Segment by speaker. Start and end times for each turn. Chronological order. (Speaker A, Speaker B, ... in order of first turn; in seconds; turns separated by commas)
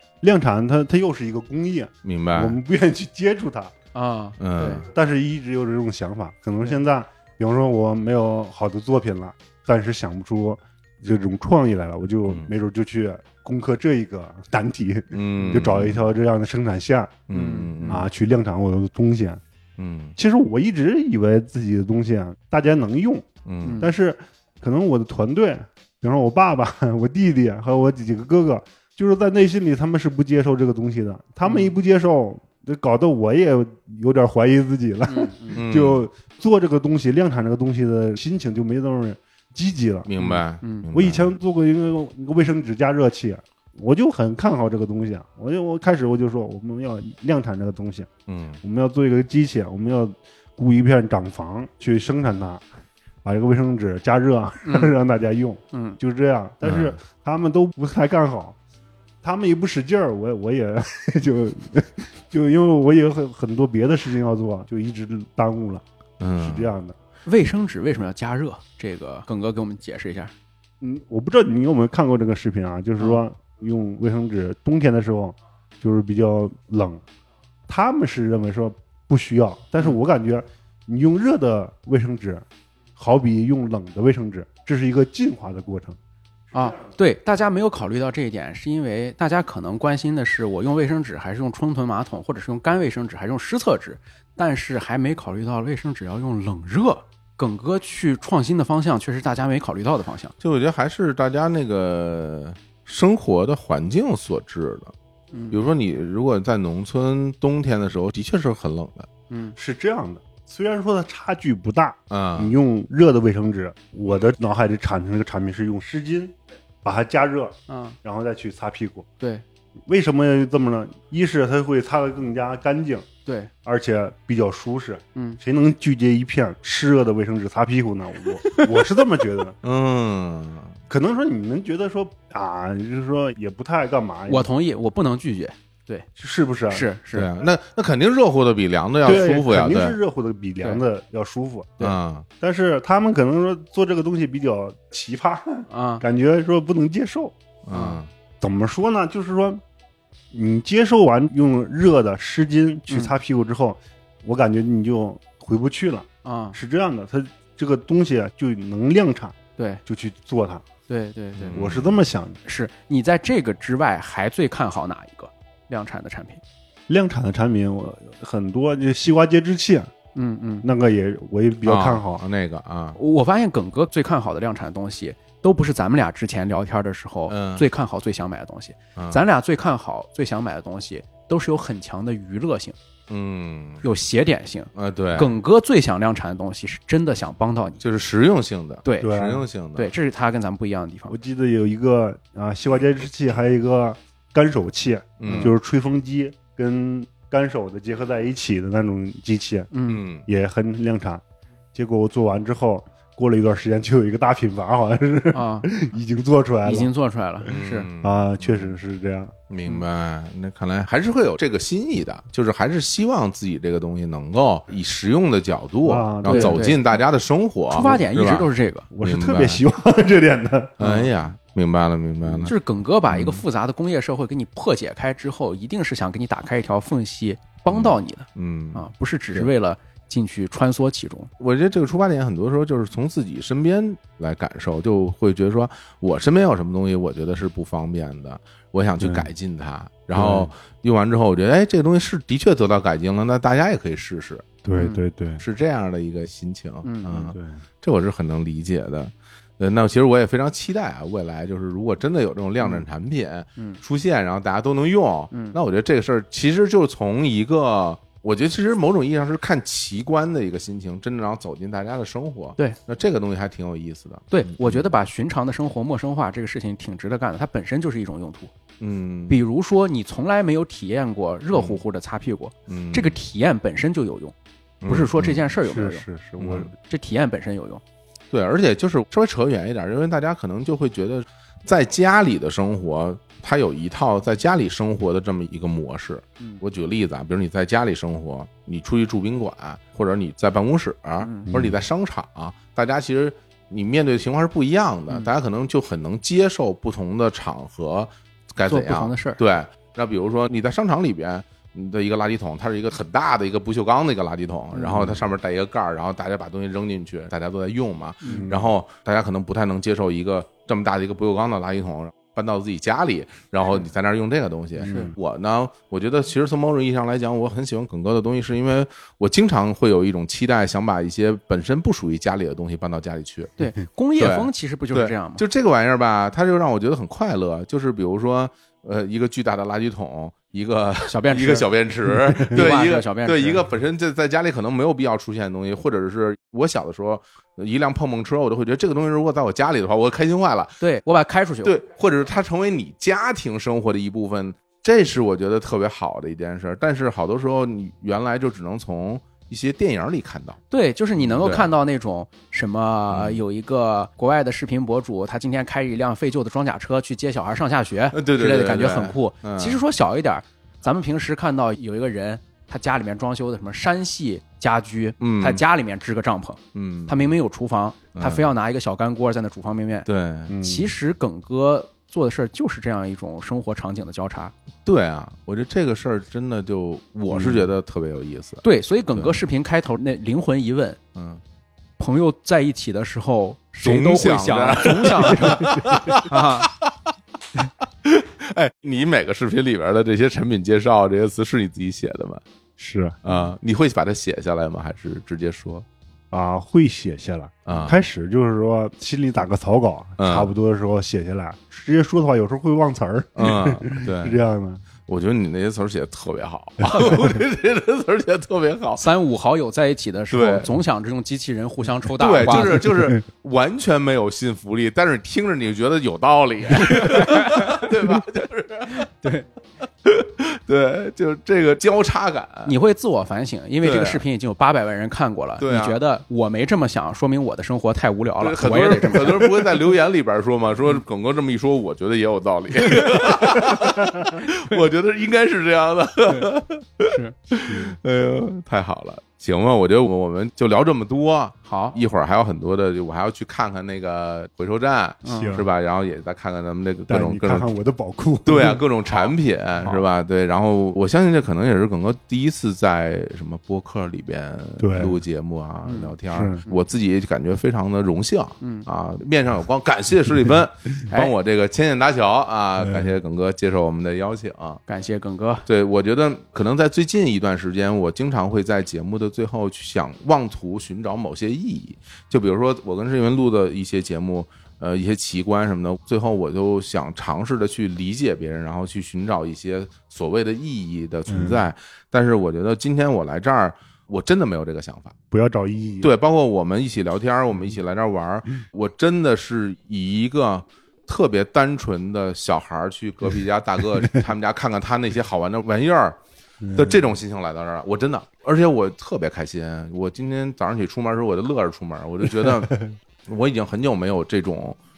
Speaker A: 0.2-3.7, Speaker B: 2.0-2.6, Speaker C: 3.9-4.9, Speaker B: 4.4-4.8, Speaker A: 4.9-17.2, Speaker B: 15.1-16.1, Speaker B: 17.3-18.1, Speaker C: 17.3-18.0, Speaker A: 17.9-19.4, Speaker B: 19.8-20.2, Speaker A: 20.2-23.3, Speaker B: 23.4-23.8, Speaker C: 23.6-23.9, Speaker A: 23.8-40.1, Speaker C: 31.4-31.7, Speaker C: 35.1-35.6, Speaker B: 35.5-36.1, Speaker B: 40.0-41.3, Speaker C: 40.2-40.9, Speaker A: 40.9-48.1, Speaker B: 48.3-48.6, Speaker A: 48.6-52.6, Speaker A: 53.2-58.6, Speaker C: 54.7-55.0, Speaker C: 55.7-56.0, Speaker B: 56.6-57.0, Speaker A: 59.2-65.8, Speaker B: 66.2-66.7, Speaker A: 66.4-67.0, Speaker C: 67.3-70.3, Speaker A: 70.8-77.0, Speaker A: 77.7-82.5, Speaker A: 83.0-86.0, Speaker C: 86.5-100.3, Speaker B: 100.4-104.9, Speaker C: 105.3-105.6, Speaker B: 105.5-109.1, Speaker C: 109.3-109.6, Speaker A: 109.6-119.1, Speaker B: 112.1-112.5, Speaker C: 117.7-118.0, Speaker A: 119.9-123.1, Speaker C: 123.3-123.5, Speaker A: 123.7-129.6, Speaker B: 129.6-130.8, Speaker A: 130.9-134.5, Speaker C: 134.3-136.1, Speaker A: 136.2-136.9, Speaker C: 136.7-137.3, Speaker B: 137.1-140.0, Speaker A: 139.1-141.8, Speaker C: 139.1-139.4, Speaker B: 141.8-142.3, Speaker A: 142.4-147.3, Speaker C: 145.7-146.0, Speaker B: 147.6-148.1, Speaker C: 147.7-148.0, Speaker A: 148.4-149.6, Speaker A: 150.3-160.7, Speaker C: 152.9-153.1, Speaker C: 156.2-156.6, Speaker C: 159.6-159.8, Speaker C: 160.9-161.6, Speaker B: 161.4-162.0, Speaker A: 161.5-162.4, Speaker C: 162.5-166.4, Speaker A: 166.9-169.9, Speaker C: 170.2-170.7, Speaker A: 170.6-172.2, Speaker B: 171.6-173.0, Speaker C: 173.0-182.8, Speaker B: 177.3-177.7, Speaker B: 179.0-179.2, Speaker B: 183.1-183.8, Speaker C: 183.8-187.8, Speaker B: 184.8-185.3, Speaker B: 187.8-189.9, Speaker C: 188.8-189.2, Speaker A: 189.0-189.4, Speaker C: 189.8-191.1, Speaker A: 191.1-199.7, Speaker B: 195.2-195.5, Speaker C: 195.2-195.5, Speaker C: 199.7-200.0, Speaker B: 199.9-200.3, Speaker A: 200.3-201.2, Speaker A: 201.8-206.9, Speaker C: 205.3-205.7, Speaker C: 206.6-207.9, Speaker B: 207.5-208.7, Speaker A: 208.0-209.3, Speaker B: 209.5-218.5, Speaker A: 215.8-216.7, Speaker C: 216.3-216.8, Speaker C: 217.7-218.9, Speaker A: 218.9-221.1, Speaker B: 219.0-219.6, Speaker B: 220.8-222.6, Speaker C: 222.4-231.3, Speaker B: 223.1-223.4, Speaker B: 227.7-229.5, Speaker B: 231.4-244.5, Speaker A: 239.0-239.3, Speaker A: 240.1-240.5, Speaker A: 244.6-245.4, Speaker B: 245.4-264.9, Speaker C: 246.8-247.4, Speaker A: 247.3-247.6, Speaker C: 255.3-255.6, Speaker C: 264.3-268.5, Speaker B: 268.8-269.4, Speaker C: 269.3-274.3, Speaker B: 272.7-273.2, Speaker B: 274.8-275.4, Speaker C: 274.9-276.1, Speaker A: 275.6-276.7, Speaker B: 276.4-276.7, Speaker C: 276.7-277.8, Speaker B: 278.3-323.5, Speaker C: 291.2-291.5, Speaker C: 298.7-299.4, Speaker C: 304.8-305.1, Speaker C: 308.2-308.5, Speaker A: 308.2-308.7, Speaker A: 314.9-315.1, Speaker C: 314.9-315.1, Speaker C: 323.6-325.4, Speaker B: 324.2-340.8, Speaker C: 331.1-333.7, Speaker C: 340.8-341.8, Speaker B: 341.6-350.6, Speaker C: 350.7-370.1, Speaker B: 351.2-351.7, Speaker B: 353.1-353.4, Speaker B: 358.1-359.8, Speaker B: 365.2-365.6, Speaker B: 366.7-367.3, Speaker B: 368.1-368.5, Speaker B: 370.1-370.6, Speaker A: 370.5-370.9, Speaker C: 370.6-374.5, Speaker B: 374.9-379.4, Speaker A: 377.3-377.7, Speaker C: 378.6-381.0, Speaker B: 381.1-381.4, Speaker C: 382.0-386.7, Speaker B: 383.8-387.1, Speaker A: 385.5-386.0, Speaker B: 387.8-392.4, Speaker A: 392.8-393.2, Speaker B: 393.2-395.9, Speaker A: 396.3-404.8, Speaker B: 397.7-398.0, Speaker B: 400.2-400.5, Speaker B: 403.4-404.4, Speaker B: 405.1-409.0, Speaker A: 406.8-407.4, Speaker C: 409.0-413.0, Speaker B: 410.3-410.7, Speaker B: 412.2-419.1, Speaker C: 416.7-418.2, Speaker C: 418.9-419.5, Speaker B: 420.0-422.7, Speaker C: 422.7-429.8, Speaker B: 423.8-424.2, Speaker B: 425.6-426.0, Speaker B: 428.4-447.7, Speaker C: 432.9-434.8, Speaker C: 437.1-437.4, Speaker C: 441.6-441.9, Speaker C: 445.2-445.6, Speaker A: 445.3-445.7, Speaker A: 447.1-448.8, Speaker B: 448.4-464.8, Speaker A: 454.8-455.2, Speaker C: 455.9-456.2, Speaker A: 456.3-456.6, Speaker C: 458.6-458.9, Speaker C: 464.9-465.6, Speaker B: 465.7-485.2, Speaker A: 481.3-481.7, Speaker A: 485.3-486.1, Speaker B: 486.0-496.2, Speaker A: 496.6-497.0, Speaker B: 496.7-504.8